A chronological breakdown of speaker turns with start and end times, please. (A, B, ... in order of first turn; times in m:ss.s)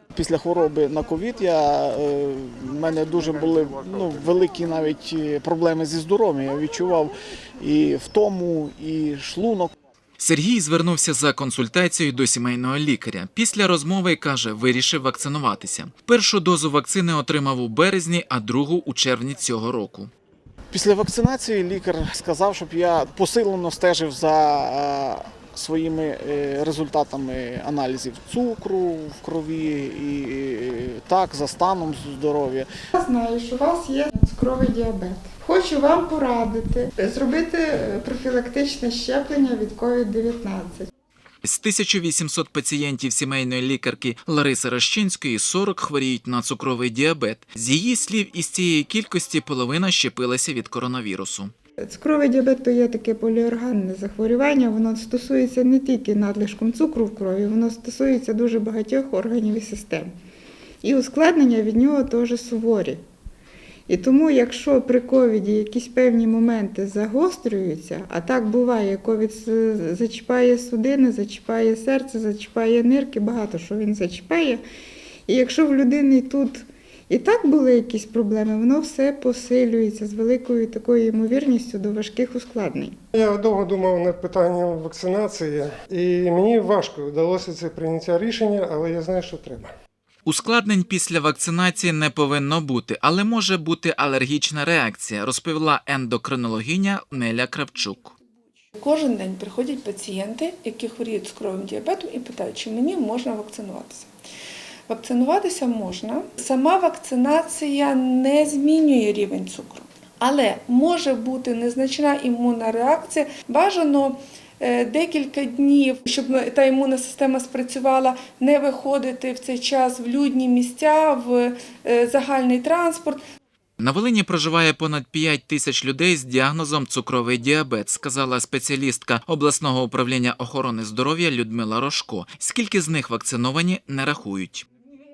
0:00.1-0:09.7 A
0:10.2-0:20.1 B
0:20.7-0:32.7 A
0:32.9-0:40.9 C
0:41.4-0:51.5 B
0:51.8-1:00.1 C
1:00.8-1:03.0 C
1:03.9-1:14.6 C
1:15.3-1:23.0 C
1:23.1-1:29.7 D
1:30.3-1:38.1 B
1:38.8-1:44.1 E
1:44.9-2:03.2 E
2:03.8-2:14.7 B